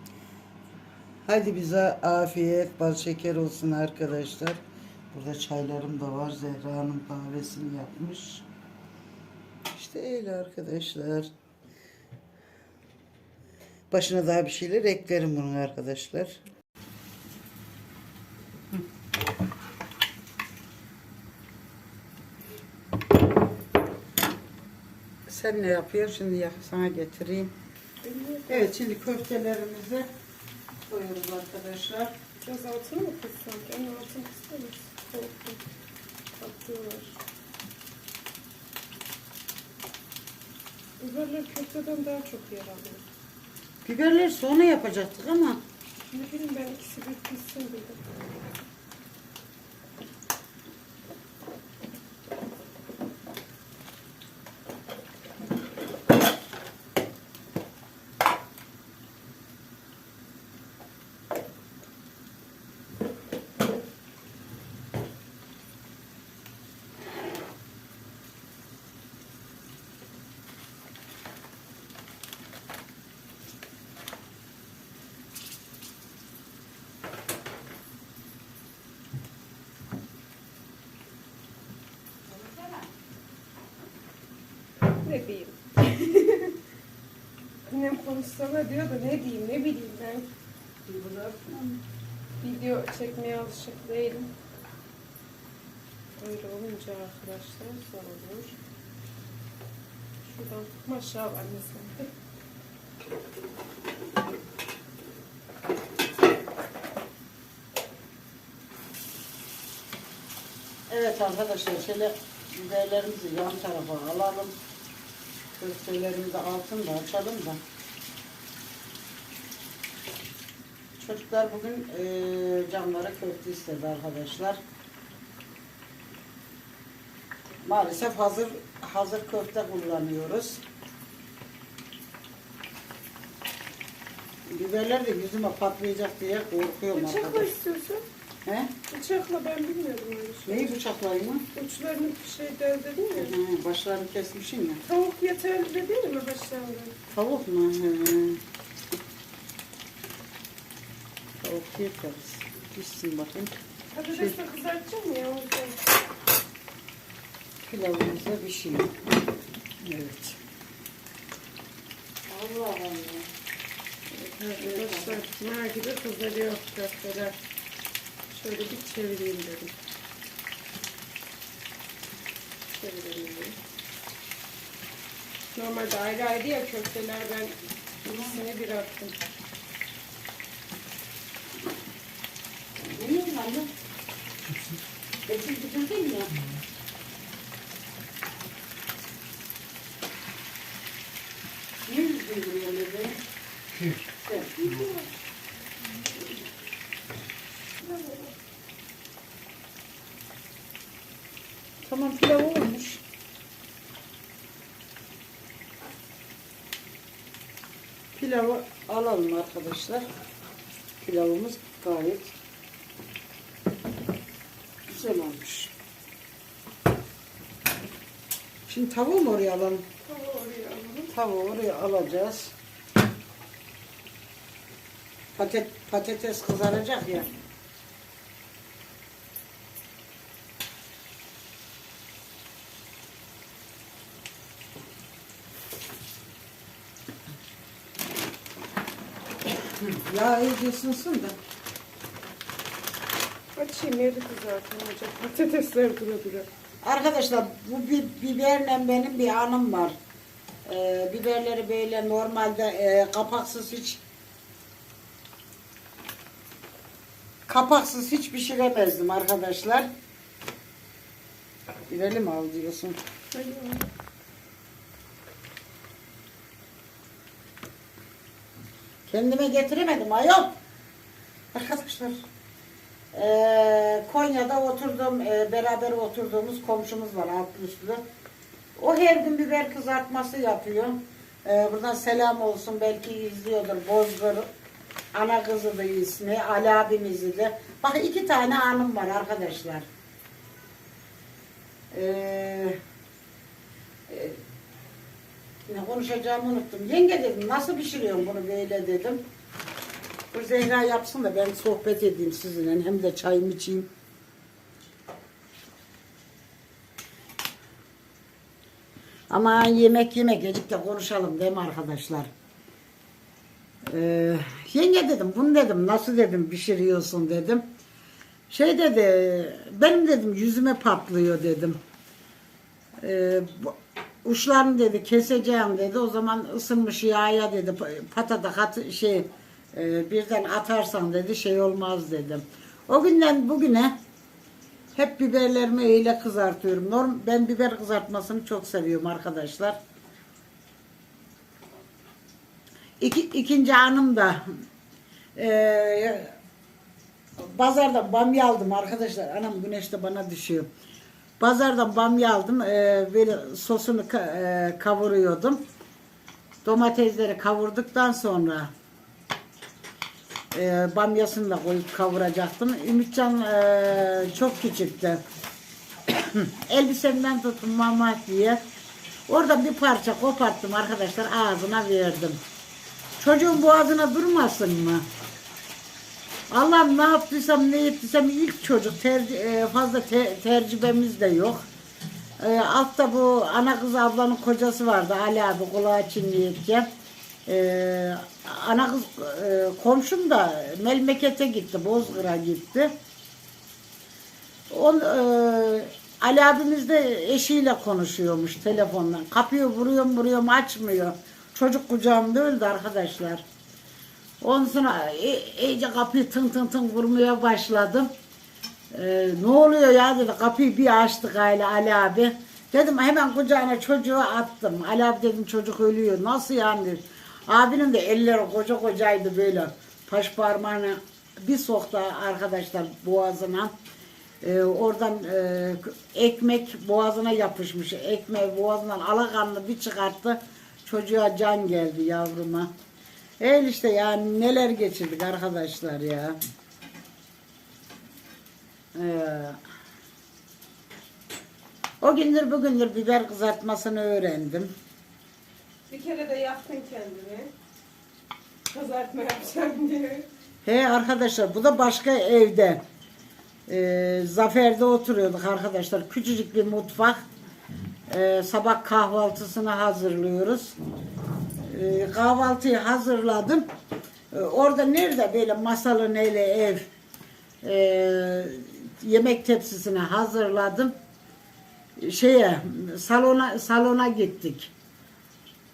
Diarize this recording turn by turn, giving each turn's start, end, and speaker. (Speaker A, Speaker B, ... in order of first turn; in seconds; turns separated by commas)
Speaker A: 1.2-4.6, Speaker A: 5.1-8.5, Speaker A: 9.7-11.3, Speaker A: 13.9-16.4, Speaker A: 25.3-27.5, Speaker B: 28.0-28.8, Speaker A: 28.5-30.1, Speaker A: 30.9-32.1, Speaker B: 32.4-35.6, Speaker B: 36.4-37.1, Speaker B: 41.0-43.0, Speaker A: 43.8-45.6, Speaker B: 46.1-48.0, Speaker A: 82.3-82.8, Speaker B: 84.9-86.6, Speaker B: 87.7-90.3, Speaker A: 90.9-91.8, Speaker B: 92.4-94.3, Speaker B: 96.2-98.5, Speaker B: 100.3-102.1, Speaker A: 110.9-114.5, Speaker A: 115.6-117.6, Speaker A: 121.0-124.6, Speaker A: 127.7-130.6, Speaker A: 134.5-137.5, Speaker B: 136.9-138.0, Speaker A: 138.4-138.7, Speaker B: 138.9-140.7, Speaker A: 140.5-141.5, Speaker B: 141.5-143.4, Speaker A: 143.2-144.8, Speaker B: 144.8-146.9, Speaker A: 147.1-148.4, Speaker A: 151.4-153.5, Speaker B: 153.9-155.8, Speaker A: 157.6-158.9, Speaker A: 159.8-160.4, Speaker A: 162.3-163.3, Speaker B: 164.1-167.3, Speaker A: 164.6-165.2, Speaker B: 168.3-169.7, Speaker B: 172.7-173.6, Speaker B: 175.5-179.2, Speaker A: 182.9-183.7, Speaker A: 185.3-186.4, Speaker A: 191.8-193.2, Speaker A: 193.9-194.5, Speaker B: 194.5-195.1, Speaker B: 197.8-198.3, Speaker A: 201.8-203.0, Speaker A: 208.2-210.0, Speaker A: 211.0-212.3, Speaker A: 214.9-215.7, Speaker A: 218.7-219.8, Speaker B: 220.0-221.1, Speaker A: 221.1-222.5, Speaker A: 225.3-227.3, Speaker A: 239.8-241.3, Speaker B: 243.6-246.5, Speaker A: 246.8-250.0, Speaker A: 250.7-254.0, Speaker A: 257.5-259.9, Speaker A: 261.9-263.0, Speaker B: 263.3-263.9, Speaker A: 269.1-270.5, Speaker A: 271.5-272.2, Speaker A: 273.1-278.0, Speaker A: 278.8-284.5, Speaker A: 285.1-289.9, Speaker A: 291.9-292.8, Speaker A: 294.1-294.4, Speaker A: 295.7-299.2, Speaker A: 300.3-303.9, Speaker A: 309.3-312.3, Speaker A: 313.9-317.6, Speaker A: 318.5-321.8, Speaker A: 323.0-333.9, Speaker A: 334.9-339.8, Speaker A: 343.0-344.5, Speaker A: 345.4-346.4, Speaker A: 347.4-350.7, Speaker A: 351.4-355.6, Speaker A: 356.6-358.7, Speaker A: 360.5-365.2, Speaker A: 366.1-368.6, Speaker A: 369.3-372.4, Speaker A: 373.2-375.0, Speaker A: 376.5-381.6, Speaker A: 382.4-386.9, Speaker A: 387.5-392.9, Speaker A: 394.7-403.4, Speaker A: 404.4-408.1, Speaker A: 408.9-423.7, Speaker A: 424.4-432.7, Speaker A: 433.4-436.4, Speaker A: 438.9-439.6, Speaker A: 442.0-444.7, Speaker B: 445.9-447.5, Speaker B: 448.7-450.2, Speaker A: 450.6-452.8, Speaker A: 453.7-457.3, Speaker A: 458.1-460.8, Speaker A: 461.6-463.7, Speaker A: 464.3-466.9, Speaker A: 467.6-470.9, Speaker A: 472.0-474.7